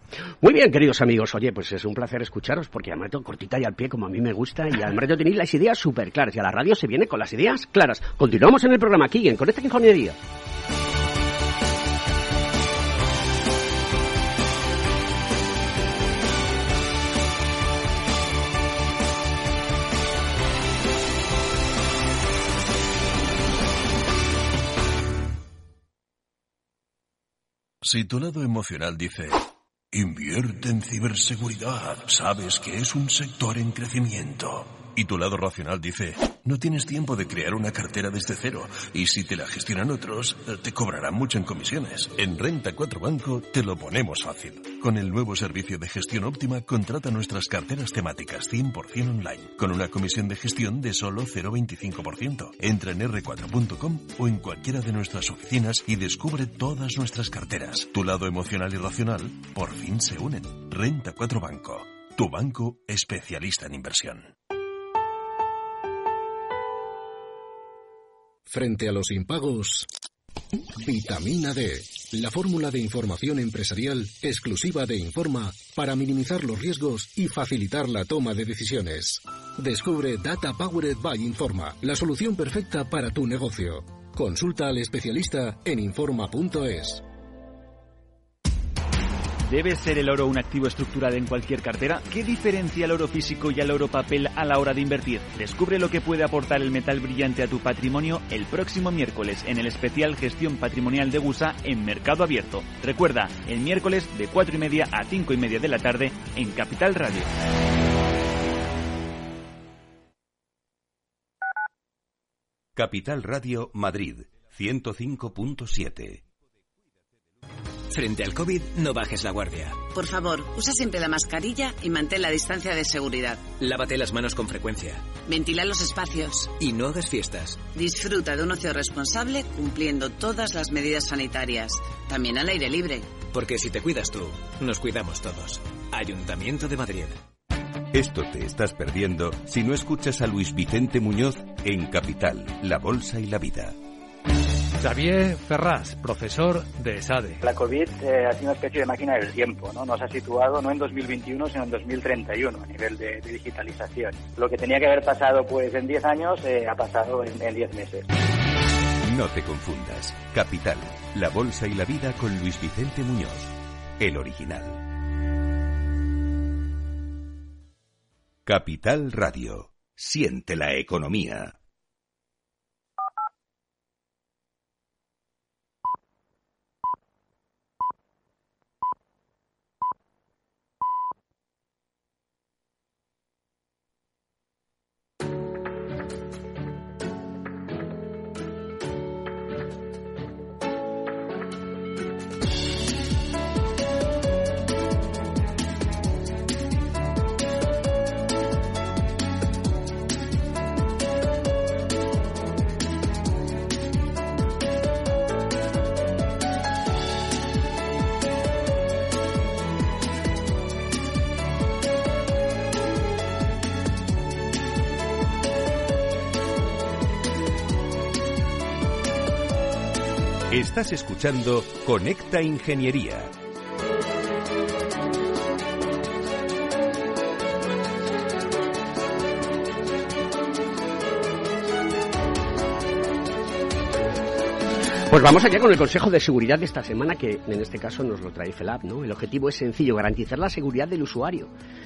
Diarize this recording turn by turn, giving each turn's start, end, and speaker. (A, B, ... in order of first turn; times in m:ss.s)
0:00.4-0:10.2 A
0:27.8-1:04.3 B
1:08.5-1:09.9 C
1:10.7-1:27.0 C
1:29.5-1:47.3 D
1:52.8-1:56.2 E
1:57.9-1:59.8 F
1:59.9-2:03.6 G
2:03.6-2:05.1 F
2:05.2-2:06.6 G
2:06.6-2:07.6 F
2:07.7-2:13.2 G
2:13.3-2:17.2 F
2:17.9-2:23.8 E
2:24.8-2:27.4 H
2:27.4-2:38.1 I
2:39.0-2:44.8 E
2:48.5-2:51.6 E
3:40.5-3:43.3 E
3:55.1-4:01.5 A